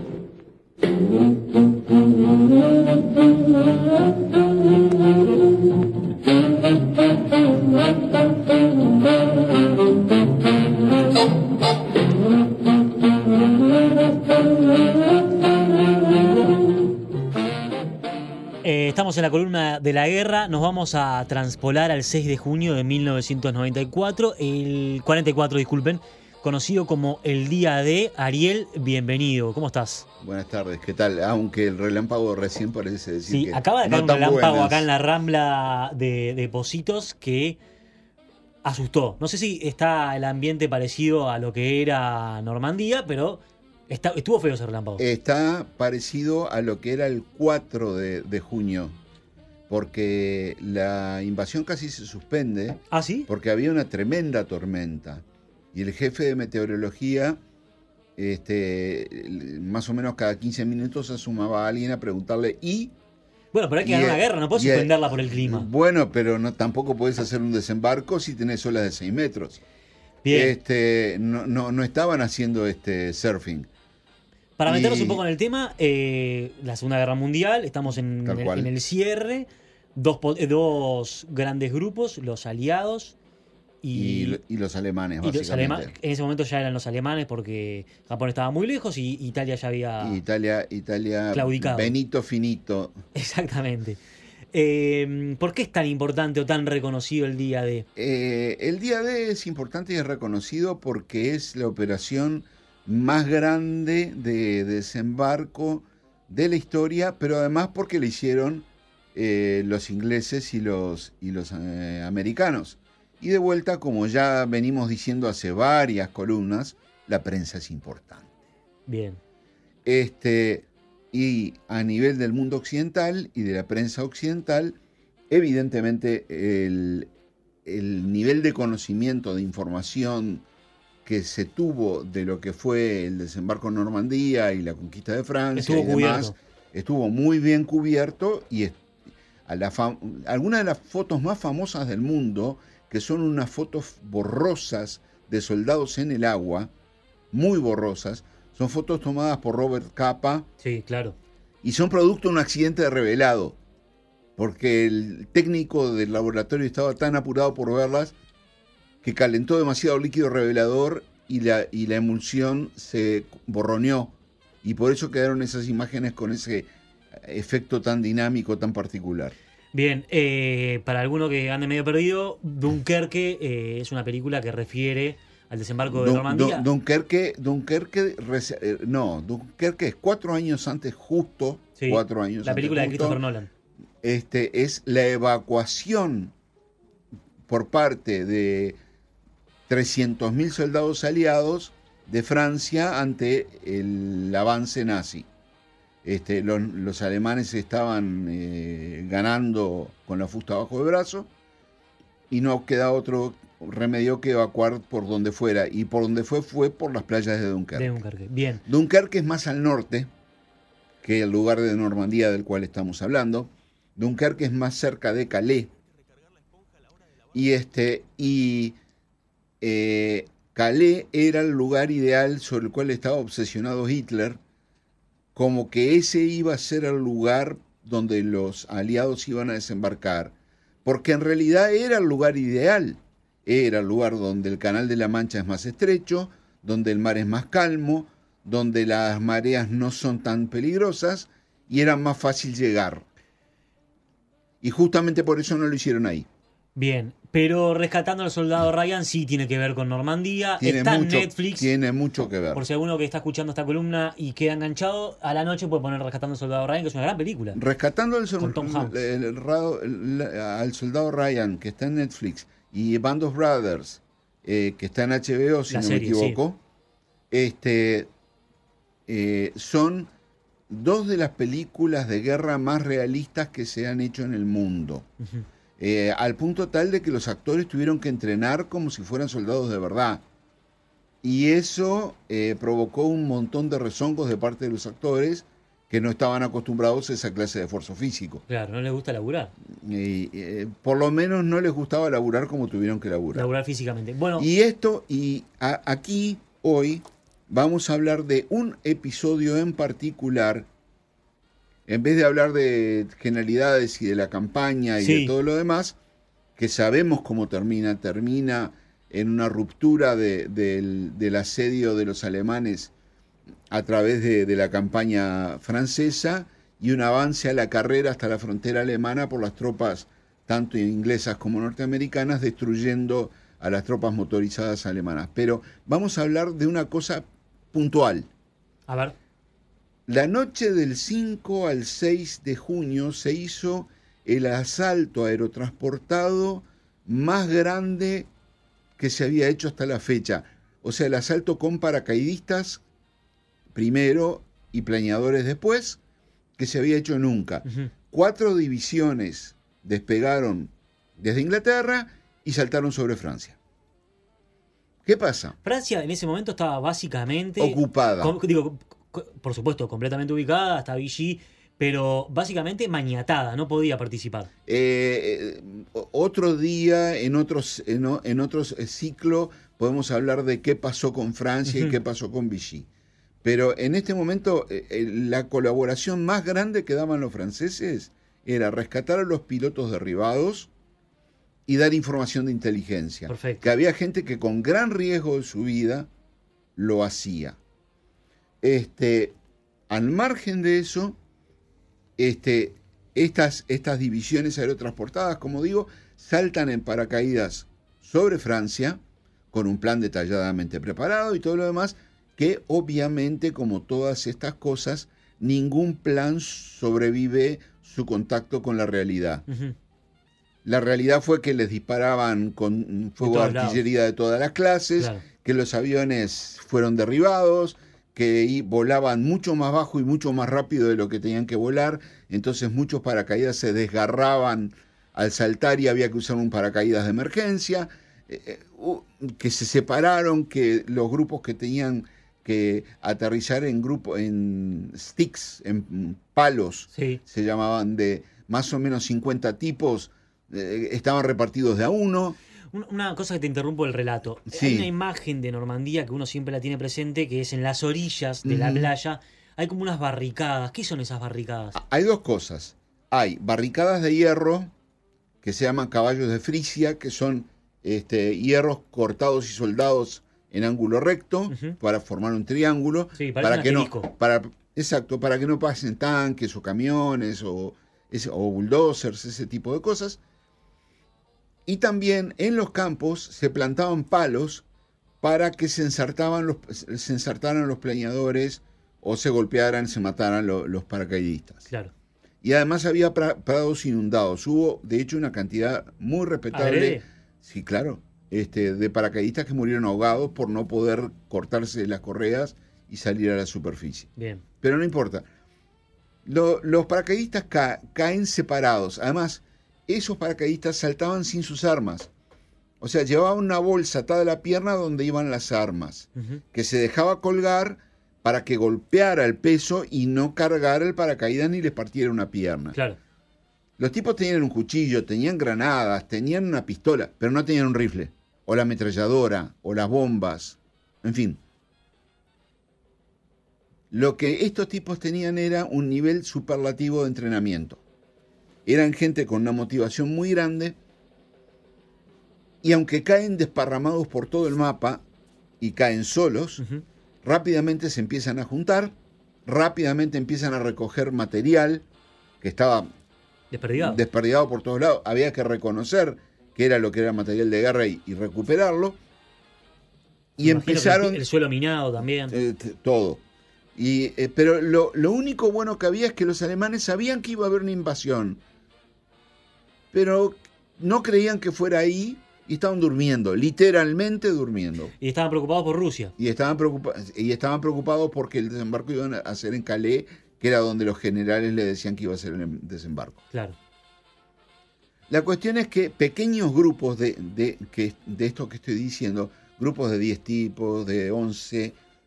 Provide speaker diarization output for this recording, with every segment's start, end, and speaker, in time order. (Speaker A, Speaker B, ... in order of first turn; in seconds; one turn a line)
Speaker A: 18.6-30.1
Speaker B: 30.2-34.9
Speaker A: 33.3-37.6
Speaker A: 38.6-45.0
Speaker B: 45.0-49.0
Speaker B: 49.7-57.4
Speaker A: 52.9-53.3
Speaker B: 58.2-62.9
Speaker A: 63.5-65.7
Speaker B: 63.8-69.6
Speaker A: 70.2-70.5
Speaker B: 70.3-73.7
Speaker A: 74.6-83.2
Speaker B: 74.7-75.2
Speaker B: 78.2-78.7
Speaker A: 83.8-84.4
Speaker B: 83.9-85.9
Speaker A: 85.2-90.2
Speaker B: 90.0-93.0
Speaker A: 91.3-92.0
Speaker A: 93.1-94.0
Speaker A: 94.5-97.8
Speaker B: 98.0-118.3
Speaker A: 118.8-119.2
Speaker B: 119.8-124.8
Speaker B: 125.3-127.1
Speaker B: 127.6-130.4
Speaker B: 131.0-138.8
Speaker A: 135.5-136.3
Speaker B: 139.4-146.7
Speaker B: 147.3-150.5
Speaker A: 150.6-151.2
Speaker B: 151.6-153.6
Speaker B: 154.4-158.1
Speaker B: 159.0-169.3
Speaker A: 169.7-176.7
Speaker B: 175.8-183.2
Speaker A: 181.8-183.5
Speaker B: 184.0-186.3
Speaker B: 187.5-188.8
Speaker B: 189.7-195.3
Speaker B: 196.0-201.3
Speaker B: 202.3-207.9
Speaker A: 207.7-208.6
Speaker B: 208.7-210.1
Speaker B: 211.0-215.7
Speaker B: 217.3-218.8
Speaker B: 219.6-224.4
Speaker B: 225.3-243.0
Speaker B: 244.6-246.2
Speaker A: 246.7-251.7
Speaker B: 250.6-252.6
Speaker A: 252.5-257.6
Speaker B: 257.5-266.6
Speaker A: 258.4-259.0
Speaker A: 265.7-266.4
Speaker B: 267.3-268.1
Speaker B: 269.1-270.1
Speaker B: 270.7-275.1
Speaker B: 275.8-280.2
Speaker B: 281.2-288.4
Speaker A: 288.5-289.5
Speaker B: 289.8-293.5
Speaker A: 293.3-294.5
Speaker B: 294.4-300.7
Speaker B: 301.9-305.9
Speaker A: 305.0-305.3
Speaker B: 306.6-312.9
Speaker B: 313.7-328.3
Speaker A: 328.9-329.1
Speaker B: 330.1-338.3
Speaker B: 339.0-342.8
Speaker B: 343.7-346.0
Speaker B: 346.6-353.6
Speaker A: 347.6-347.9
Speaker B: 355.0-355.6
Speaker A: 355.6-364.5
Speaker B: 357.6-358.4
Speaker B: 364.7-372.9
Speaker A: 371.6-372.0
Speaker B: 373.4-380.7
Speaker B: 381.7-386.1
Speaker A: 383.3-383.7
Speaker B: 386.8-387.6
Speaker B: 388.6-389.4
Speaker B: 389.9-391.1
Speaker B: 392.2-399.0
Speaker B: 399.5-409.4
Speaker A: 409.5-409.7
Speaker B: 410.6-442.4
Speaker A: 413.2-413.8
Speaker A: 415.0-415.2
Speaker A: 436.9-437.2
Speaker A: 442.7-451.8
Speaker B: 444.5-444.9
Speaker B: 448.4-448.9
Speaker B: 451.7-454.7
Speaker B: 455.4-470.2
Speaker A: 461.5-461.8
Speaker A: 463.1-464.1
Speaker B: 471.6-474.6
Speaker B: 475.2-481.7
Speaker B: 482.4-494.1
Speaker A: 486.5-487.0
Speaker A: 494.1-494.4
Speaker B: 494.6-495.2
Speaker B: 496.2-502.1
Speaker B: 502.8-512.8
Speaker A: 512.7-513.0
Speaker B: 513.8-521.4
Speaker B: 523.9-527.8
Speaker B: 528.6-530.8
Speaker B: 532.6-535.0
Speaker B: 535.6-536.6
Speaker B: 537.2-538.9
Speaker B: 539.5-541.9
Speaker B: 542.4-542.9
Speaker A: 543.5-544.0
Speaker B: 543.8-549.0
Speaker B: 550.4-551.2
Speaker A: 550.4-552.3
Speaker B: 552.3-553.2
Speaker B: 553.7-558.4
Speaker B: 559.9-564.9
Speaker A: 565.0-566.1
Speaker B: 566.2-573.2
Speaker A: 573.3-573.5
Speaker B: 575.1-581.8